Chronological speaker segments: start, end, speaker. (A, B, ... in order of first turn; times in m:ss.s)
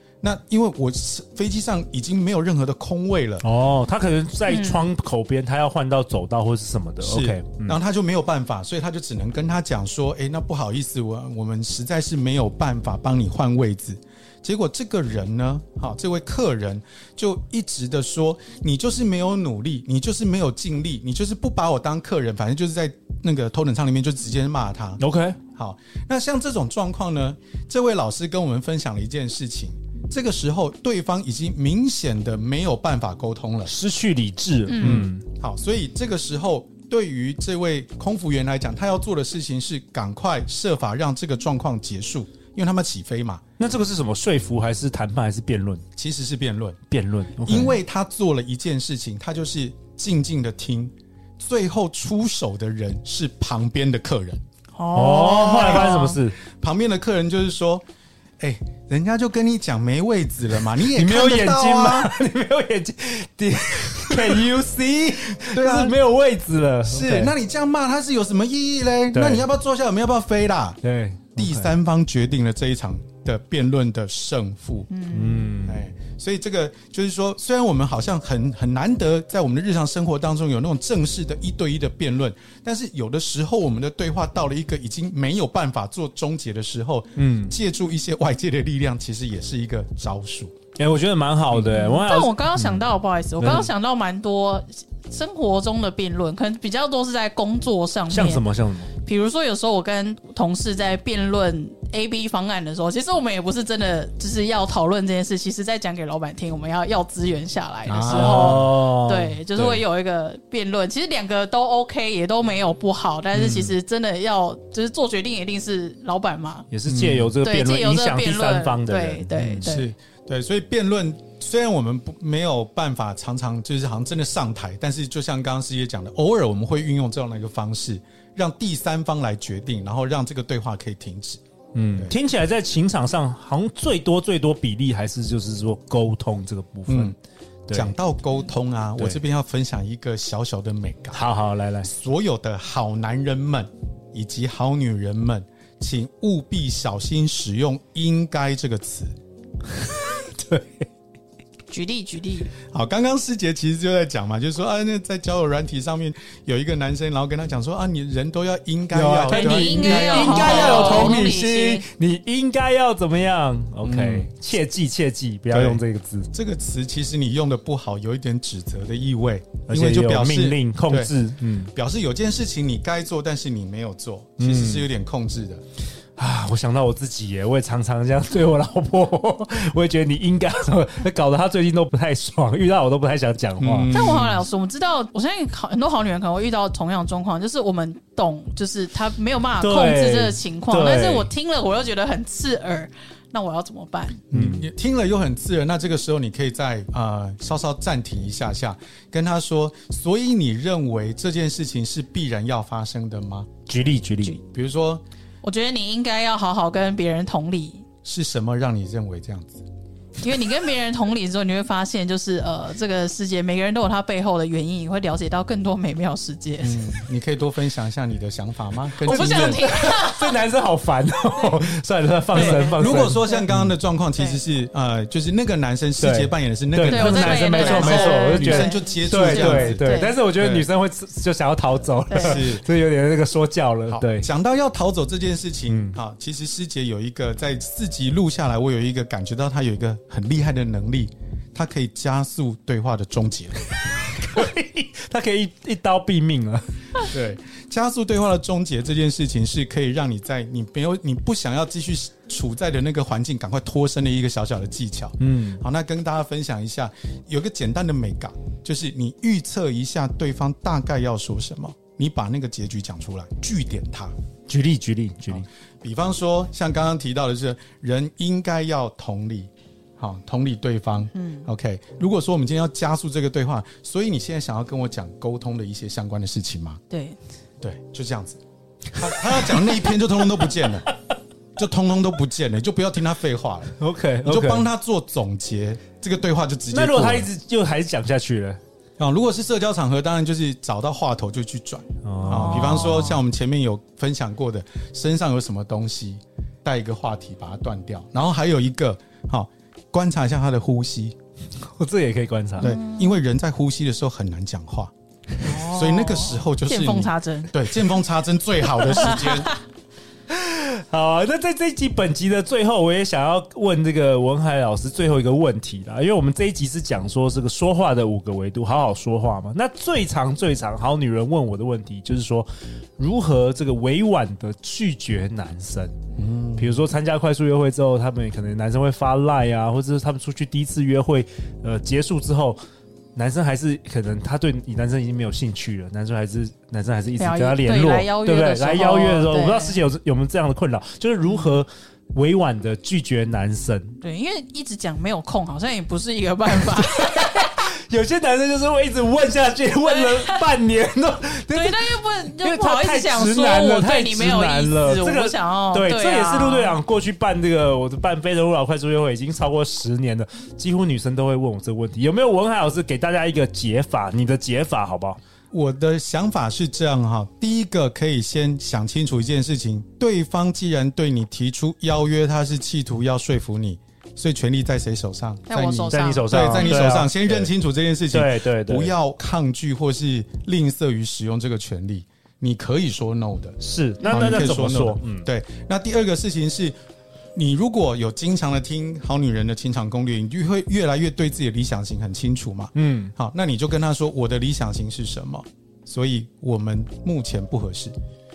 0:00.2-0:03.4 A
0:03.4-0:07.8 B
0:04.5-0:04.9 C
0:07.0-0:25.0 A
0:25.0-0:25.4 B
0:25.6-0:33.7 A
0:33.7-0:35.2 B
0:34.7-0:35.0 C
0:34.8-0:43.4 A
0:43.6-0:45.8 B
0:46.0-0:46.8 A
0:46.9-0:47.8 B
0:47.4-0:54.4 A
0:54.8-0:56.2 C
0:54.9-0:56.4 B
0:55.2-0:56.0 A
0:56.6-0:57.8 A
0:58.4-1:02.1 A
1:00.8-1:07.3 B
1:05.4-1:06.0 A
1:06.9-1:10.8 A
1:09.1-1:09.4 B
1:10.8-1:11.7 B
1:11.4-1:14.9 A
1:14.9-1:15.5 C
1:15.1-1:15.8 B
1:15.6-1:30.5 A
1:27.2-1:27.6 B
1:30.8-1:32.8 B
1:31.6-1:38.4 C
1:33.4-1:33.7 B
1:38.1-1:38.9 B
1:39.0-1:56.7 C
1:47.9-1:48.7 A
1:48.1-1:49.8 B
1:53.4-1:53.7 A
1:56.7-1:59.7 B
1:56.9-1:57.3 A
1:57.4-1:59.9 C
1:59.6-2:11.4 A
2:11.8-2:17.1 B
2:16.9-2:17.2 A
2:17.7-2:18.0 B
2:17.7-2:21.2 A
2:21.1-2:21.9 B
2:21.8-2:29.1 A
2:29.7-2:30.9 B
2:31.7-2:32.5 C
2:32.7-2:41.2 A
2:38.9-2:46.3 B
2:39.3-2:41.9 C
2:43.8-2:44.3 A
2:45.5-2:45.8 A
2:46.3-2:51.2 A
2:49.7-2:51.7 B
2:51.7-2:55.6 A
2:54.4-2:54.9 B
2:56.2-3:03.9 B
3:03.6-3:04.5 A
3:03.9-3:14.2 C
3:09.6-3:11.3 B
3:14.3-3:14.7 B
3:14.3-3:23.5 A
3:23.7-3:24.4 B
3:24.5-3:25.0 A
3:25.4-3:27.8 C
3:28.0-3:29.6 A
3:30.2-3:36.9 C
3:36.6-3:39.6 A
3:39.0-3:40.4 C
3:39.1-3:43.7 B
3:42.3-3:43.5 C
3:42.3-3:49.8 A
3:46.0-3:54.3 B
3:46.9-3:50.2 C
3:50.4-3:50.7 A
3:52.1-3:52.4 C
3:52.2-3:52.6 A
3:53.9-4:03.6 A
3:55.7-3:56.0 B
4:03.8-4:07.0 B
4:07.1-4:24.1 A
4:15.2-4:15.6 B
4:24.5-4:25.5 B
4:25.3-4:36.8 A
4:31.2-4:31.5 C
4:36.9-4:37.2 C
4:37.6-4:38.4 A
4:39.0-4:40.9 A
4:39.0-4:39.9 B
4:41.6-4:47.3 A
4:43.8-4:44.7 B
4:46.7-4:48.6 B
4:49.0-5:01.2 A
4:52.0-4:52.9 B
4:52.3-4:53.2 C
5:01.6-5:02.7 B
5:02.6-5:03.2 C
5:02.6-5:04.9 A
5:05.4-5:07.6 C
5:05.5-5:09.5 A
5:08.8-5:09.6 C
5:10.3-5:26.0 B
5:26.2-5:26.8 A
5:26.6-5:32.6 B
5:33.2-5:44.0 B
5:37.2-5:39.8 C
5:41.2-5:41.6 C
5:44.0-5:47.6 C
5:46.5-6:05.2 B
5:49.8-5:50.5 C
5:51.5-5:56.8 C
6:05.5-6:26.8 A
6:15.5-6:17.0 C
6:15.9-6:17.5 B
6:18.1-6:18.9 B
6:23.6-6:25.3 B
6:24.1-6:24.5 C
6:27.4-6:37.9 A
6:32.8-6:33.1 B